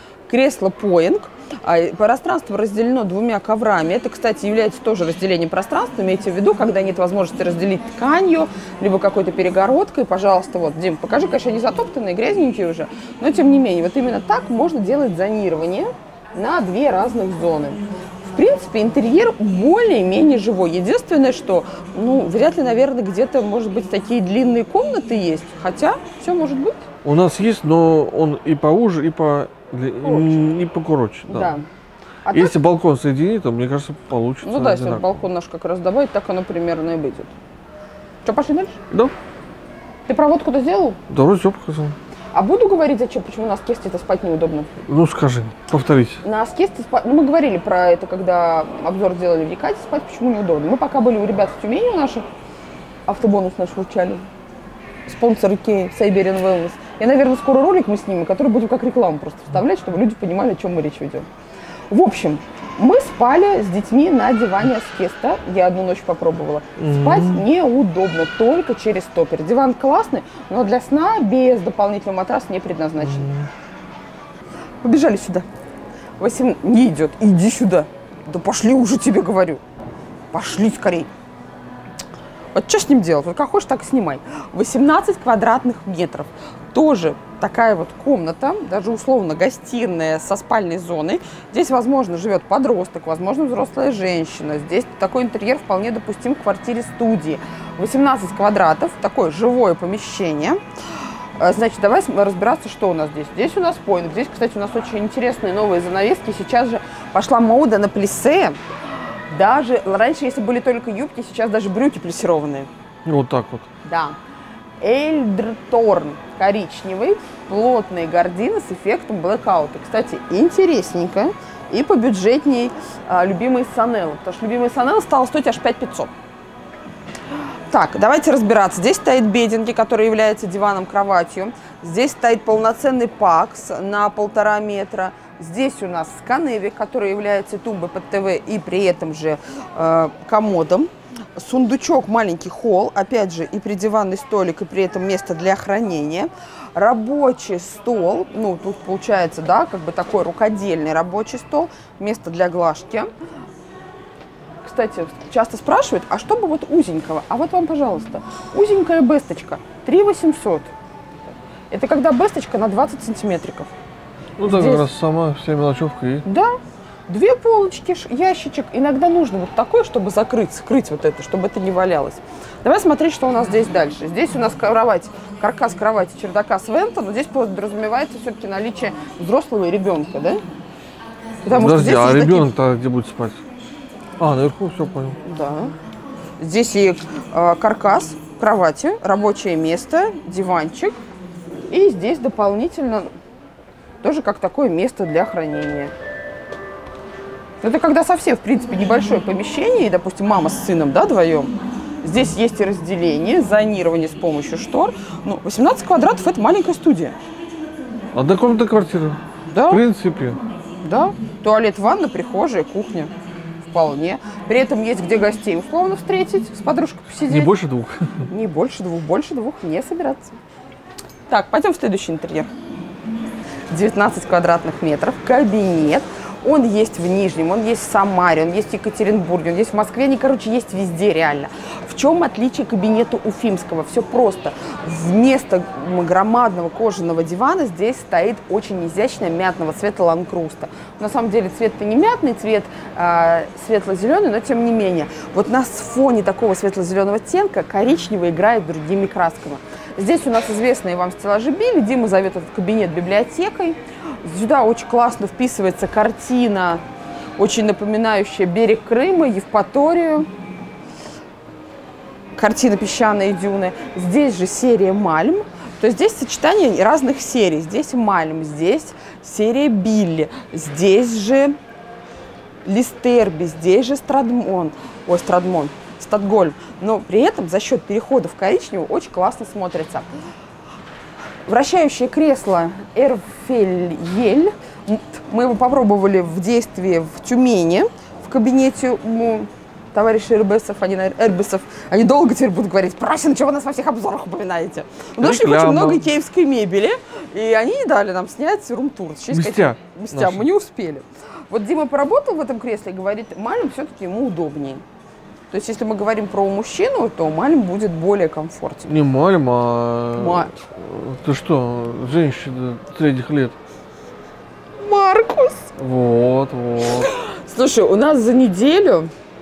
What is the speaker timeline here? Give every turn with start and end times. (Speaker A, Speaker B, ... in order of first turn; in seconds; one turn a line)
Speaker A: 0.3-26.8
Speaker B: 27.0-31.5
Speaker A: 30.0-30.3
Speaker A: 31.3-31.6
Speaker A: 32.2-32.5
Speaker B: 32.3-35.1
Speaker A: 34.4-37.3
Speaker A: 38.2-38.8
Speaker A: 40.1-41.0
Speaker B: 41.1-42.0
Speaker A: 42.3-44.7
Speaker B: 44.9-46.2
Speaker A: 46.2-52.2
Speaker A: 53.1-54.2
Speaker A: 55.1-61.3
Speaker A: 61.9-73.4
Speaker B: 66.8-67.4
Speaker B: 73.0-73.5
Speaker A: 74.8-75.5
Speaker A: 76.2-79.6
Speaker A: 80.3-81.1
Speaker A: 82.5-100.6
Speaker A: 101.4-108.6
Speaker A: 109.3-112.7
Speaker B: 113.0-113.7
Speaker A: 113.8-114.2
Speaker A: 114.8-126.1
Speaker A: 127.7-153.1
Speaker A: 154.6-160.7
Speaker A: 161.7-163.7
Speaker B: 164.4-166.2
Speaker A: 164.4-164.8
Speaker A: 166.2-166.5
Speaker A: 167.1-180.4
Speaker A: 181.4-182.5
Speaker B: 181.5-183.4
Speaker B: 184.2-185.2
Speaker A: 185.2-185.7
Speaker A: 186.4-191.0
Speaker A: 191.7-193.1
Speaker A: 194.0-195.9
Speaker A: 197.6-207.2
Speaker B: 208.1-210.4
Speaker A: 209.5-209.8
Speaker A: 210.8-213.1
Speaker A: 213.6-217.5
Speaker B: 217.2-218.3
Speaker A: 218.3-220.3
Speaker A: 221.3-222.5
Speaker A: 223.7-256.8
Speaker A: 257.4-260.3
Speaker A: 262.4-271.6
Speaker A: 272.6-280.1
Speaker A: 281.5-304.8
Speaker B: 295.2-296.1
Speaker B: 299.3-300.5
Speaker A: 305.5-308.9
Speaker B: 308.9-313.5
Speaker A: 310.1-310.6
Speaker A: 314.8-315.7
Speaker B: 315.8-317.1
Speaker A: 316.9-319.1